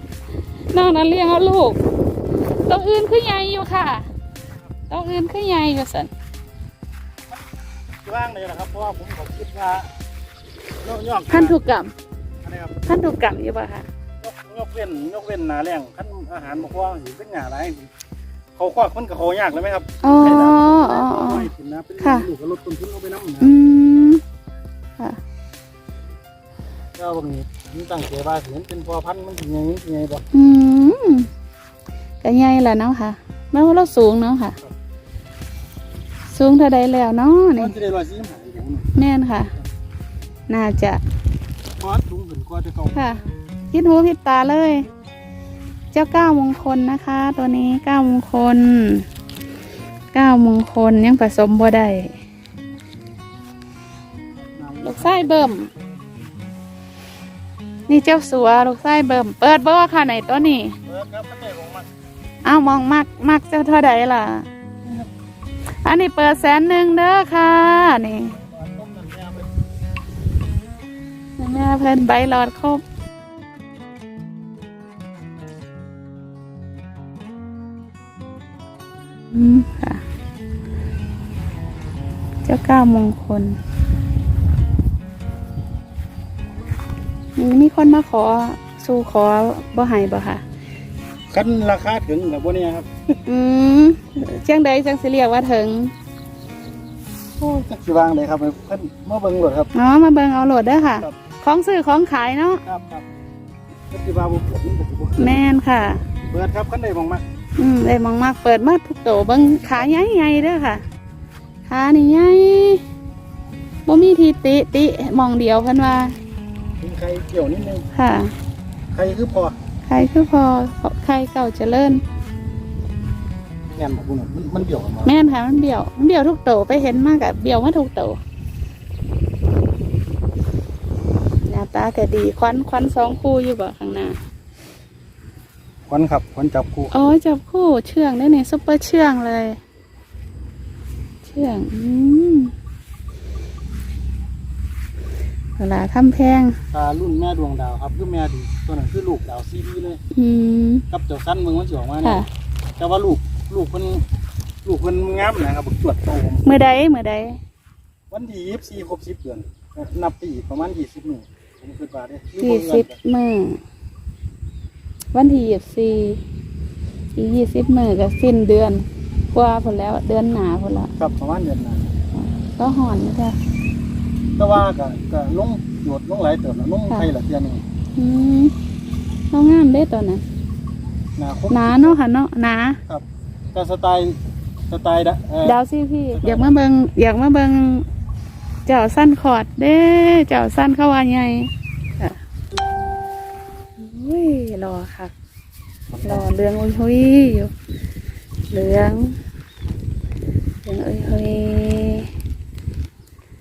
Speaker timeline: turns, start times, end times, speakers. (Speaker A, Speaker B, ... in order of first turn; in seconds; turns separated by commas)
Speaker A: 0.7-1.8, Speaker A: 2.6-4.1, Speaker A: 4.9-6.1, Speaker B: 8.0-9.9, Speaker B: 10.8-11.6, Speaker A: 11.3-11.9, Speaker B: 12.4-12.8, Speaker A: 12.8-13.8, Speaker B: 14.2-17.9, Speaker B: 18.6-23.6, Speaker A: 20.0-21.5, Speaker A: 22.0-22.3, Speaker A: 23.4-24.2, Speaker B: 27.0-30.2, Speaker A: 30.3-31.3, Speaker A: 32.2-34.6, Speaker A: 36.3-37.7, Speaker B: 37.5-38.9, Speaker A: 38.9-39.5, Speaker A: 40.5-41.0, Speaker B: 41.8-43.0, Speaker A: 42.9-43.2, Speaker A: 43.7-44.9, Speaker A: 45.9-49.1, Speaker A: 50.1-52.1, Speaker B: 54.4-55.5, Speaker A: 54.8-55.7, Speaker A: 57.9-60.8, Speaker B: 60.9-61.9, Speaker A: 62.4-64.5, Speaker A: 65.8-68.3, Speaker B: 68.3-69.5, Speaker A: 71.4-72.8, Speaker A: 79.3-80.0, Speaker A: 82.4-83.6, Speaker A: 87.3-90.4, Speaker B: 91.3-92.9, Speaker A: 93.2-95.9, Speaker B: 97.4-99.7, Speaker A: 99.7-102.6, Speaker B: 102.6-103.0, Speaker B: 103.9-105.4, Speaker A: 105.2-106.0, Speaker B: 106.3-107.2, Speaker A: 107.6-110.8, Speaker A: 111.7-112.8, Speaker A: 113.9-116.2, Speaker B: 116.8-117.8, Speaker A: 117.9-118.3, Speaker B: 118.9-119.5, Speaker A: 119.9-122.0, Speaker B: 123.8-125.1, Speaker A: 125.0-128.2, Speaker A: 131.5-134.2, Speaker B: 135.9-137.0, Speaker A: 136.9-139.6, Speaker A: 141.2-142.5, Speaker A: 145.6-146.6, Speaker B: 146.7-150.0, Speaker A: 150.1-150.8, Speaker B: 150.9-152.2, Speaker B: 152.8-154.0, Speaker B: 154.6-156.8, Speaker A: 156.4-157.4, Speaker B: 158.1-163.0, Speaker A: 162.4-163.6, Speaker A: 165.1-166.2, Speaker A: 167.1-170.9, Speaker B: 171.0-171.9, Speaker A: 172.2-173.3, Speaker B: 174.3-177.6, Speaker A: 177.9-178.5, Speaker A: 179.3-180.2, Speaker B: 181.2-182.0, Speaker A: 181.5-182.8, Speaker B: 182.9-185.6, Speaker A: 185.4-187.8, Speaker B: 186.1-186.6, Speaker A: 188.7-192.2, Speaker A: 193.8-195.1, Speaker B: 195.9-196.2, Speaker A: 196.0-197.5, Speaker A: 198.5-199.2, Speaker A: 200.6-202.1